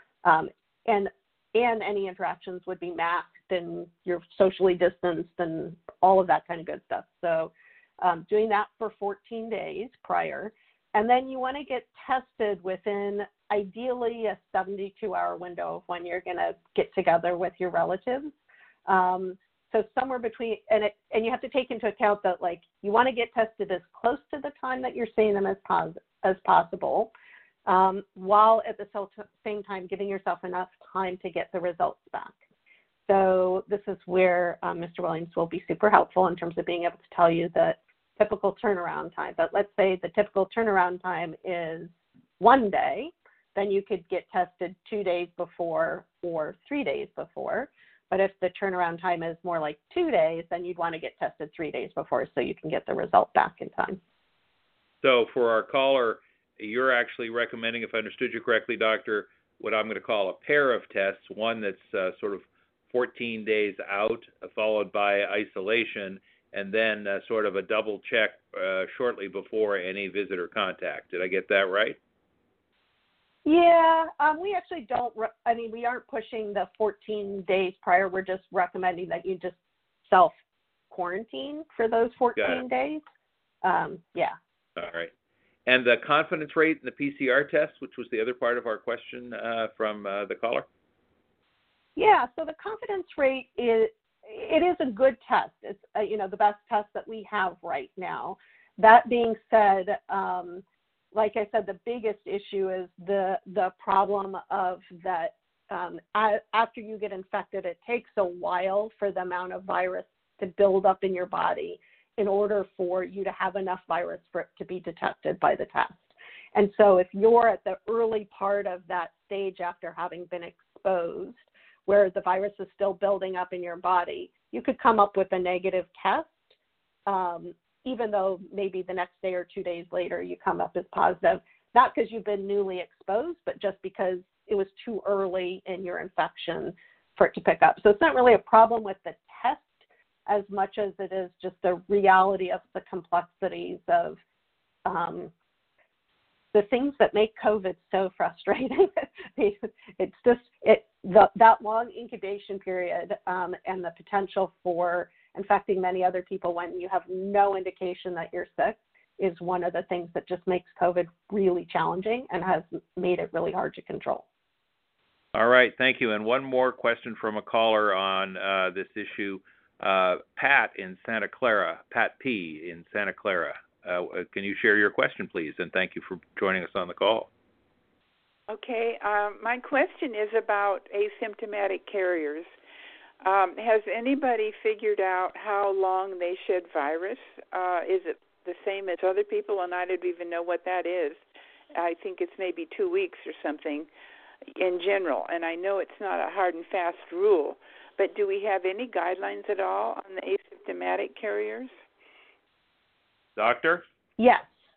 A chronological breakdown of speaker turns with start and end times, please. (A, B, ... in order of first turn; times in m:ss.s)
0:00.2-0:18.3 A
0:18.9-0:27.1 A
0:27.7-0:32.4 A
0:33.1-0:54.0 A
0:55.0-1:12.0 B
1:13.4-1:19.6 A
1:20.1-1:20.3 A
1:20.9-1:23.0 A
1:23.6-1:24.4 A
1:24.8-1:25.1 B
1:25.7-1:30.6 B
1:32.0-2:06.5 A
2:07.1-2:19.7 A
2:20.3-2:24.2 A
2:24.8-2:25.3 A
2:26.5-2:44.2 A
2:45.3-2:57.3 B
2:58.5-3:02.5 C
3:03.2-3:11.2 C
3:11.7-3:13.9 C
3:14.5-3:21.7 C
3:23.4-3:23.8 B
3:24.2-3:24.6 A